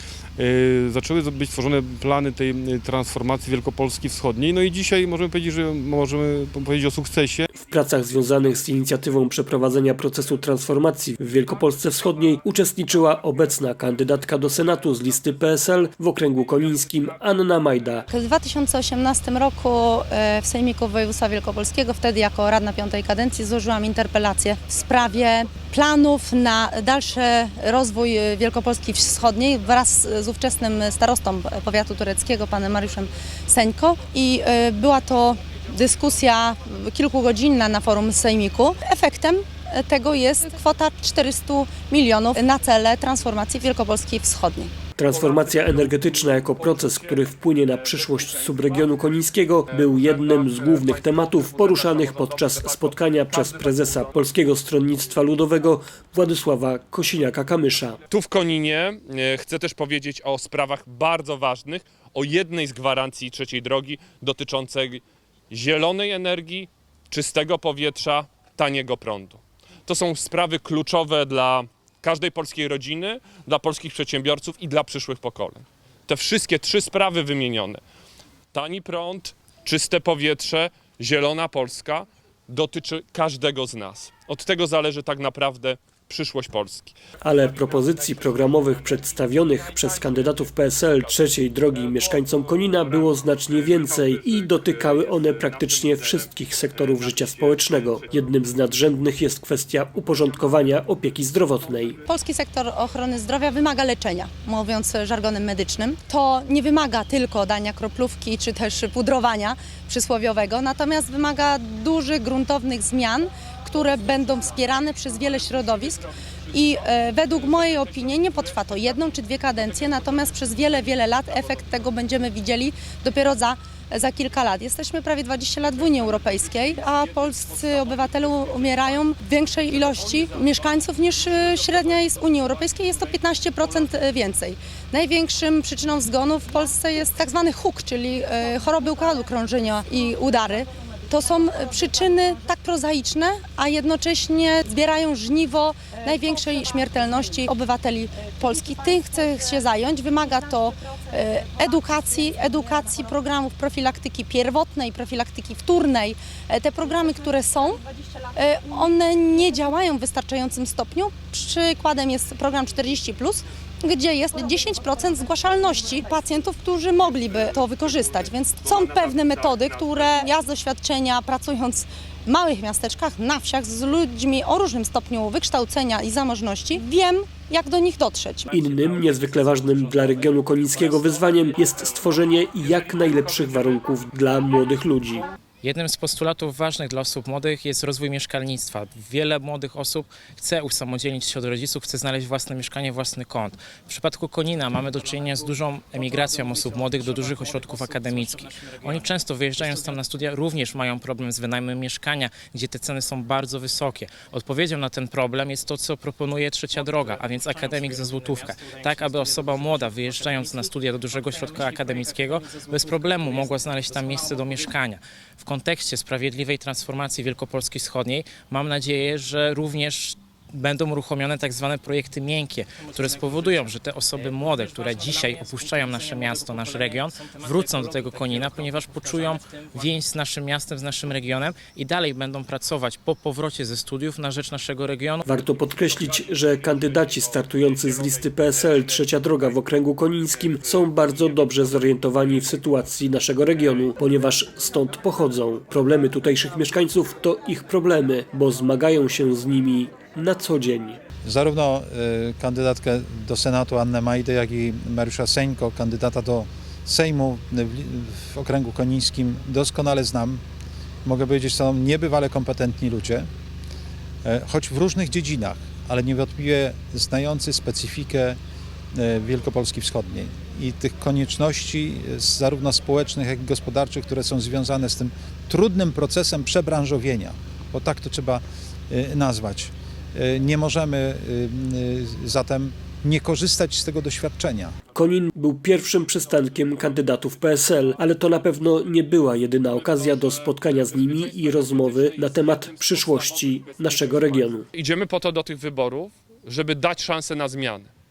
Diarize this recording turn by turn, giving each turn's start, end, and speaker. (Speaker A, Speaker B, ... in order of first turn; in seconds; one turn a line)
Speaker A: 0.4-7.5
Speaker B: 7.5-18.0
Speaker C: 18.1-44.7
Speaker B: 45.0-58.0
Speaker D: 58.1-77.8
Speaker D: 78.5-86.9
Speaker B: 87.2-102.0
Speaker C: 102.0-157.8
Speaker C: 158.3-178.5
Speaker B: 178.5-185.3
Speaker E: 185.6-235.2
Speaker B: 235.2-251.0
Speaker F: 251.2-260.4
Speaker F: 261.0-263.3
Speaker F: 264.2-268.4
Speaker F: 268.9-284.8
Speaker B: 284.9-294.6
Speaker D: 294.7-297.9